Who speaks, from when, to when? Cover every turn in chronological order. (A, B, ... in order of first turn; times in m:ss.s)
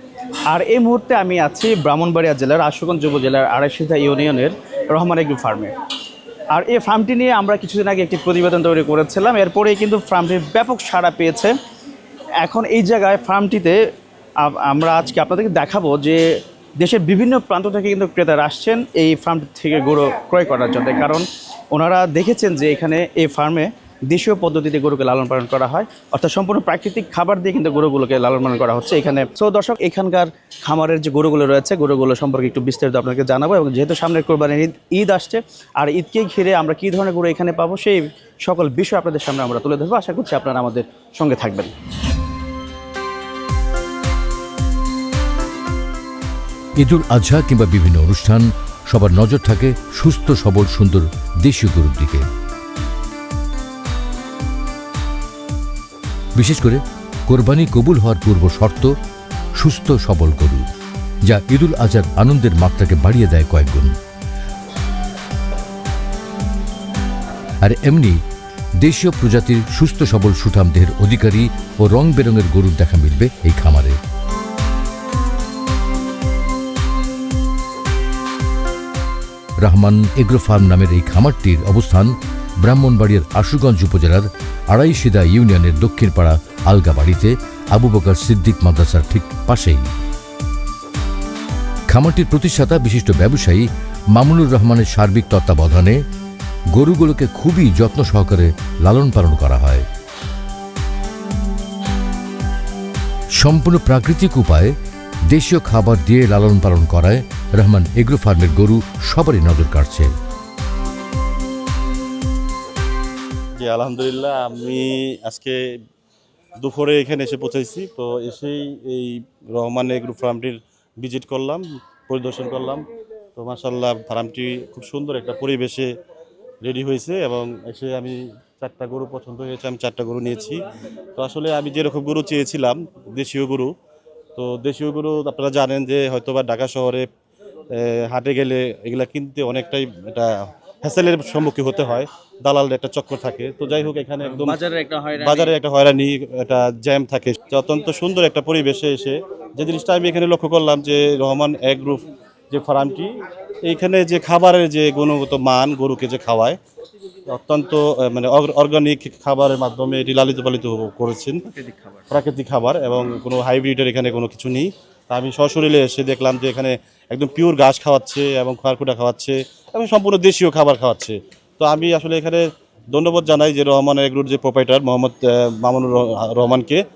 0:00.5-0:05.7 A
0:06.5-0:11.5 A
0:12.4-0:13.8 A
0:14.4-0:16.2 A
0:16.8-0:41.7 A
0:46.8-0:52.3 B
0:56.4-0:58.9 B
0:59.6-1:00.7 B
1:01.3-1:03.9 B
1:07.6-1:08.2 B
1:08.8-1:14.0 B
1:19.6-1:29.9 B
1:31.9-1:36.0 B
1:36.7-1:39.9 B
1:43.4-1:44.8 B
1:45.3-1:50.1 B
1:53.6-1:55.6 C
1:56.6-2:02.8 C
2:03.4-2:05.9 C
2:06.6-2:10.6 C
2:11.2-2:13.7 C
2:14.4-2:17.1 C
2:17.7-2:20.3 C
2:20.8-2:24.6 C
2:24.3-2:25.5 A
2:25.1-2:33.1 C
2:33.6-2:36.6 C
2:37.3-2:41.4 C
2:41.5-2:42.0 A
2:42.1-2:56.8 C